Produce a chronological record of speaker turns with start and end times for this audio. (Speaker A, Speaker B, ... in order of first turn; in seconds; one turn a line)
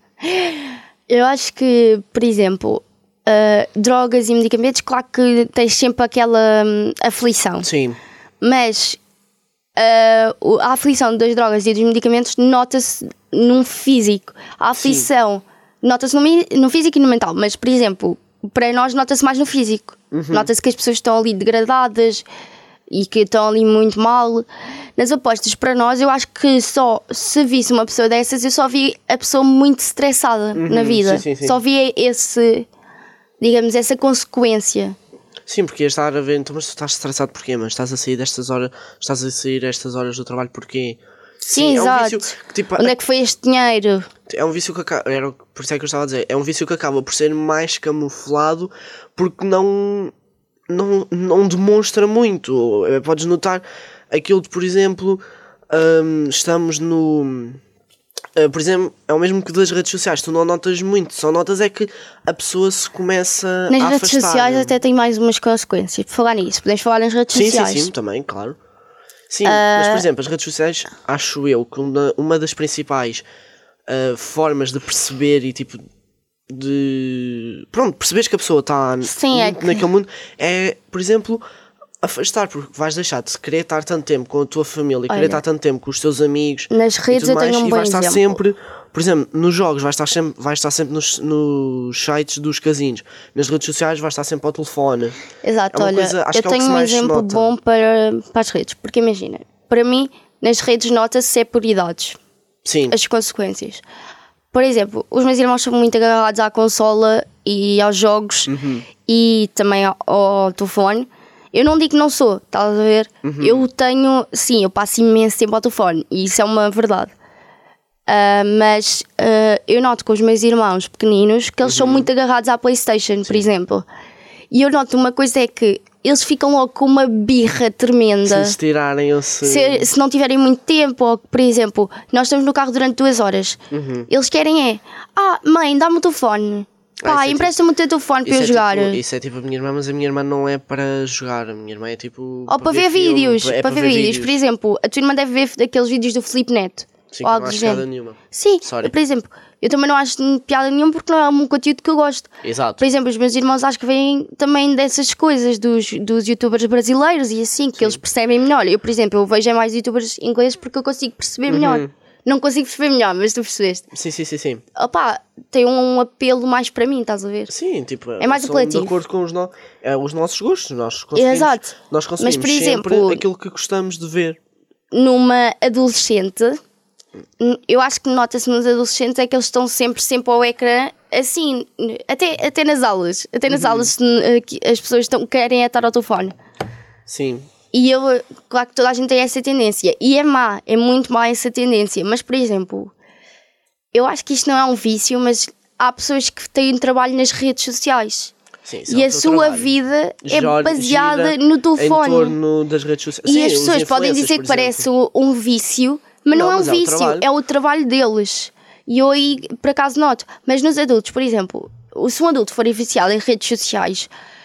Speaker A: 0.2-7.7
Speaker B: 7.6-8.0
Speaker A: 8.4-9.0
Speaker A: 9.8-22.2
Speaker B: 14.8-15.1
Speaker B: 20.1-20.5
Speaker A: 22.9-32.7
Speaker B: 30.5-31.6
Speaker A: 33.4-35.0
Speaker B: 35.5-43.0
Speaker A: 41.5-44.1
Speaker B: 44.3-50.1
Speaker B: 50.7-57.6
Speaker B: 58.3-64.7
Speaker A: 63.7-67.9
Speaker B: 67.3-68.6
Speaker B: 69.3-73.2
Speaker A: 69.4-70.0
Speaker B: 73.9-75.8
Speaker B: 76.5-81.4
Speaker A: 79.0-79.8
Speaker B: 82.0-95.2
Speaker A: 85.1-85.4
Speaker A: 86.7-88.4
Speaker A: 95.4-102.2
Speaker B: 95.7-97.5
Speaker B: 102.6-103.0
Speaker A: 102.9-103.8
Speaker A: 104.5-108.5
Speaker B: 108.5-108.8
Speaker A: 109.0-117.1
Speaker B: 113.2-113.6
Speaker A: 118.1-123.8
Speaker B: 121.6-122.1
Speaker A: 124.5-128.6
Speaker B: 128.2-129.9
Speaker A: 129.4-139.0
Speaker B: 133.7-134.1
Speaker B: 137.0-137.5
Speaker B: 138.2-144.3
Speaker A: 142.5-163.8
Speaker B: 147.1-148.9
Speaker B: 152.4-152.8
Speaker B: 157.8-158.0
Speaker B: 161.5-161.9
Speaker B: 163.9-164.6
Speaker A: 164.7-167.5
Speaker B: 167.5-174.4
Speaker A: 168.2-168.9
Speaker A: 171.1-173.2
Speaker A: 174.9-176.6
Speaker A: 177.4-186.4
Speaker B: 183.5-183.9
Speaker B: 187.1-187.5
Speaker A: 187.7-192.9
Speaker A: 193.9-198.3
Speaker B: 198.6-199.7
Speaker A: 198.9-202.4
Speaker B: 200.2-204.9
Speaker A: 203.2-214.1
Speaker B: 206.3-207.3